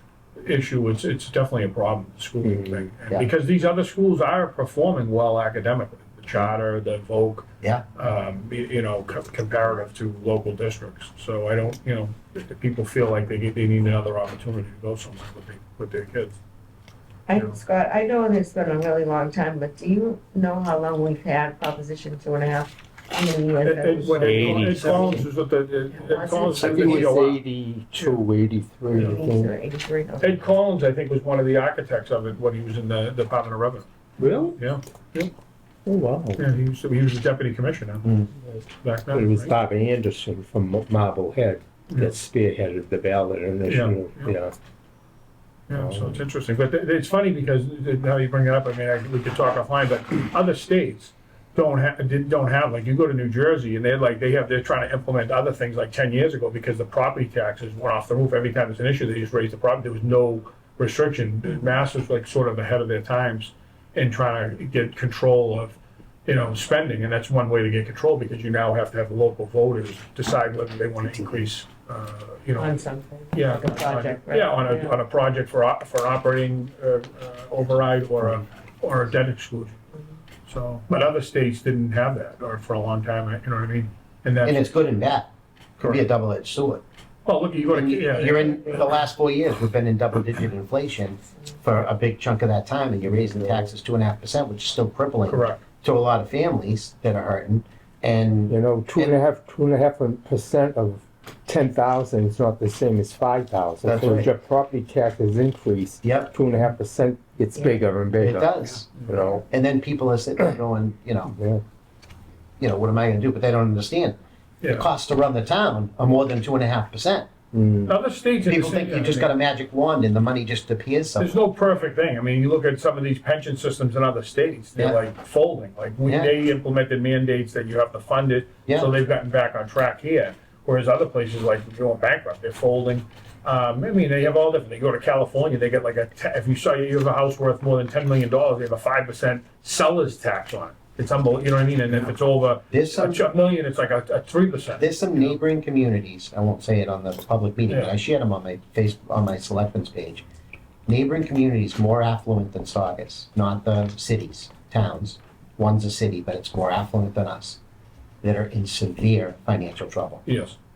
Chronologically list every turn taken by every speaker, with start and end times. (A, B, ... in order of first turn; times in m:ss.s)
0:00.4-0:16.4 A
0:02.4-0:02.9 B
0:17.3-0:25.2 C
0:17.3-0:17.6 A
0:23.6-0:27.4 A
0:24.2-0:25.2 B
0:25.9-0:27.1 C
0:26.6-0:29.5 B
0:27.9-0:28.2 A
0:28.9-0:30.4 C
0:30.2-0:33.9 A
0:34.2-0:34.6 B
0:34.5-0:35.3 A
0:35.8-0:36.4 B
0:36.4-0:38.1 A
0:38.8-0:39.5 A
0:39.1-0:44.6 B
0:43.6-0:44.3 A
0:45.7-1:12.8 A
0:45.7-0:46.2 B
1:12.6-1:15.0 C
1:13.3-1:19.8 A
1:20.5-1:24.7 A
1:24.4-1:26.8 D
1:25.8-1:26.0 A
1:27.2-1:28.8 A
1:27.7-1:39.2 D
1:33.2-1:33.7 B
1:35.3-1:35.6 A
1:38.5-1:49.4 B
1:43.8-1:44.3 D
1:46.0-1:46.3 D
1:48.2-1:48.9 D
1:49.5-1:51.3 D
1:51.2-1:51.6 B
1:52.6-1:57.3 D
1:54.6-1:54.9 A
1:57.5-1:58.0 B
1:57.9-1:59.3 A
1:58.4-2:01.3 D
2:01.2-2:25.4 A
2:04.8-2:05.0 D
2:06.0-2:06.3 D
2:22.7-2:23.2 D
2:24.8-2:30.2 D
2:30.9-2:37.6 D
2:38.2-2:40.2 D
2:40.2-2:40.6 A